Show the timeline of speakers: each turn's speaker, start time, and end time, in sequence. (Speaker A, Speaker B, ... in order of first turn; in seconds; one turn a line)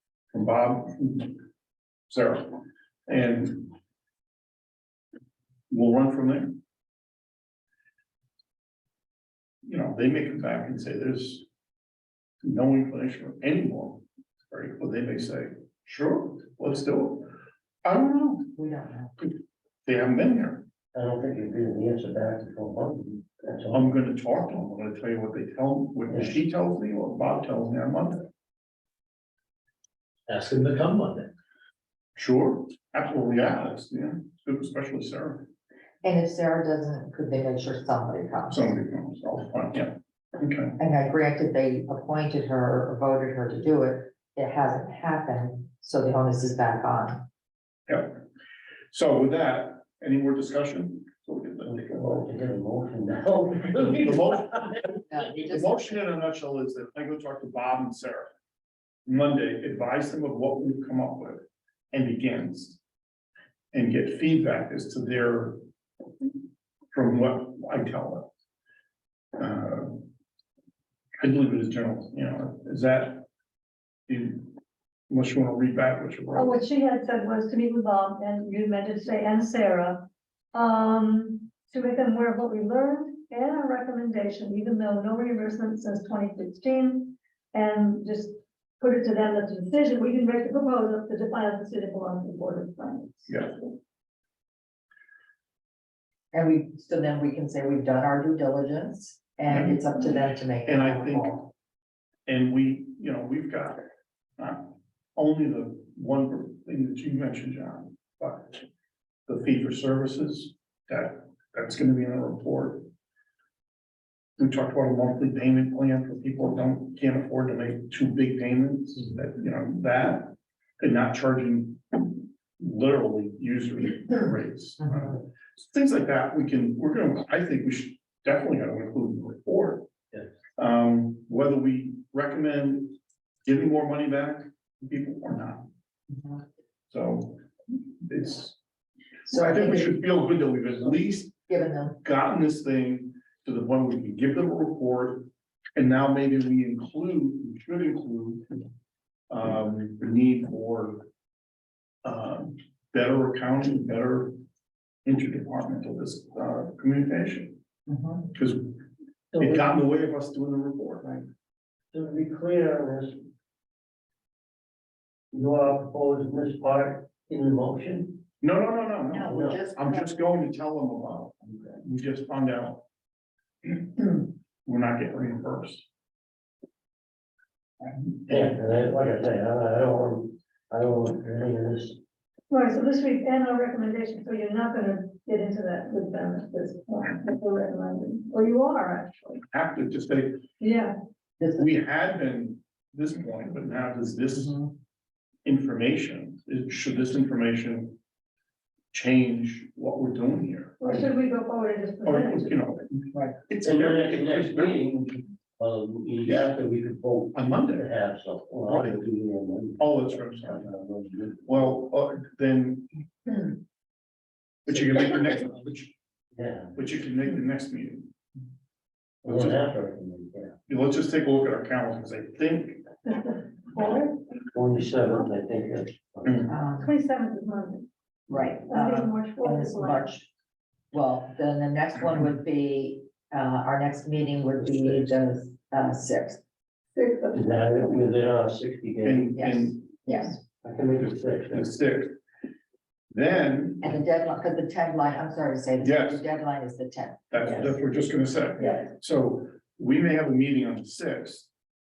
Speaker A: 0.3-1.4
Speaker A: 2.1-3.7
Speaker A: 5.7-6.6
Speaker A: 9.7-11.4
Speaker A: 12.4-17.3
Speaker A: 17.8-18.6
Speaker B: 18.6-19.1
Speaker A: 19.9-20.6
Speaker C: 20.9-23.9
Speaker A: 23.7-28.2
Speaker C: 30.3-31.3
Speaker A: 32.2-35.5
Speaker B: 36.0-38.7
Speaker A: 38.5-40.8
Speaker B: 40.8-47.2
Speaker A: 47.9-48.2
Speaker A: 48.9-52.1
Speaker C: 51.6-54.8
Speaker A: 54.0-58.3
Speaker B: 55.1-56.0
Speaker A: 59.1-62.8
Speaker A: 63.7-65.6
Speaker A: 66.9-68.3
Speaker A: 69.4-70.1
Speaker A: 71.2-73.3
Speaker A: 74.1-74.5
Speaker A: 75.1-76.6
Speaker D: 76.3-93.4
Speaker A: 93.3-93.6
Speaker B: 96.3-101.4
Speaker A: 99.5-99.8
Speaker A: 100.7-101.5
Speaker A: 102.3-103.8
Speaker A: 104.4-108.7
Speaker A: 109.3-112.9
Speaker A: 114.4-129.9
Speaker A: 130.6-135.7
Speaker A: 136.9-137.4
Speaker A: 138.0-138.6
Speaker B: 139.3-139.9
Speaker A: 139.3-141.4
Speaker B: 141.5-142.0
Speaker A: 142.0-148.5
Speaker A: 149.3-151.1
Speaker A: 152.0-154.3
Speaker A: 155.1-157.6
Speaker B: 157.9-158.2
Speaker A: 158.2-158.8
Speaker C: 159.3-159.7
Speaker A: 159.3-161.2
Speaker C: 161.9-163.2
Speaker C: 165.3-168.2
Speaker A: 168.4-172.8
Speaker B: 169.1-170.2
Speaker C: 169.3-169.6
Speaker A: 173.6-175.9
Speaker A: 177.8-178.6
Speaker C: 178.3-182.0
Speaker D: 182.5-189.4
Speaker A: 189.4-190.4
Speaker D: 190.6-190.9
Speaker B: 191.4-191.7
Speaker A: 191.6-194.7
Speaker A: 195.4-198.0
Speaker A: 198.9-201.0
Speaker D: 200.8-202.6
Speaker A: 202.1-204.9
Speaker C: 203.6-211.5
Speaker A: 206.3-206.5
Speaker A: 207.3-207.9
Speaker A: 208.7-209.0
Speaker A: 209.8-210.7
Speaker A: 211.4-213.5
Speaker A: 214.7-215.9
Speaker C: 216.4-216.7
Speaker A: 216.8-218.1
Speaker C: 219.2-220.5
Speaker A: 219.2-219.8
Speaker A: 220.7-222.8
Speaker D: 223.1-224.2
Speaker C: 224.5-226.5
Speaker B: 226.5-226.9
Speaker D: 226.8-227.9
Speaker B: 228.3-230.3
Speaker D: 228.7-230.1
Speaker B: 230.9-236.4
Speaker C: 234.8-235.1
Speaker D: 236.9-237.4
Speaker C: 237.3-239.4
Speaker A: 239.0-239.9
Speaker B: 239.4-240.4
Speaker C: 240.6-241.7
Speaker A: 241.0-242.2
Speaker A: 243.1-244.0
Speaker B: 243.8-247.7
Speaker A: 245.8-246.2
Speaker A: 247.3-251.5
Speaker D: 248.6-248.9